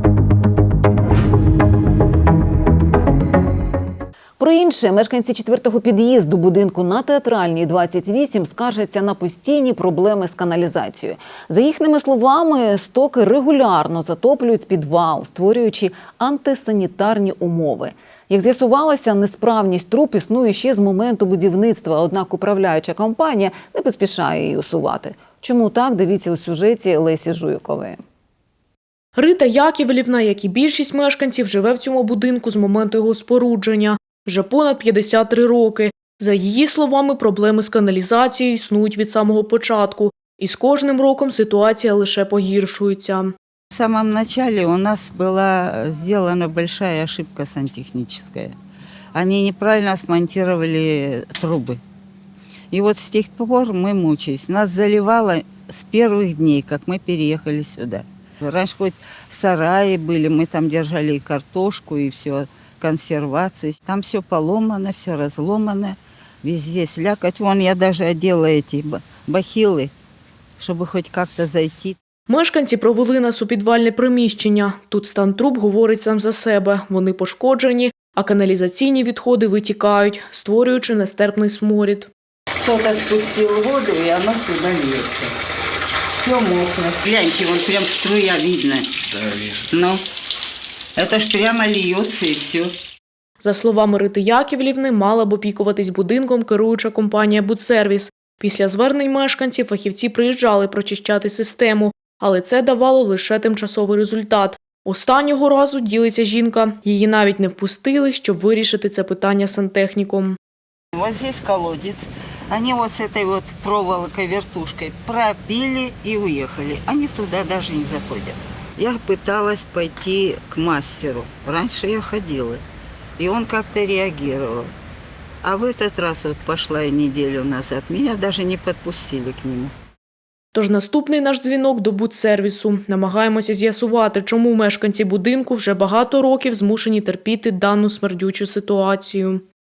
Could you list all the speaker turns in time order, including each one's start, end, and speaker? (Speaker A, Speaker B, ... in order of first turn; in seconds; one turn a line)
Speaker A: 4.4-28.0
Speaker B: 29.2-43.3
Speaker C: 43.7-48.6
Speaker C: 49.1-51.8
Speaker C: 52.7-69.9
Speaker C: 70.6-72.0
Speaker B: 72.3-82.1
Speaker C: 82.6-85.3
Speaker C: 86.2-88.9
Speaker C: 89.6-90.0
Speaker C: 91.0-92.7
Speaker B: 93.4-110.4
Speaker C: 110.9-122.6
Speaker C: 123.2-124.7
Speaker C: 125.4-129.7
Speaker B: 130.5-139.4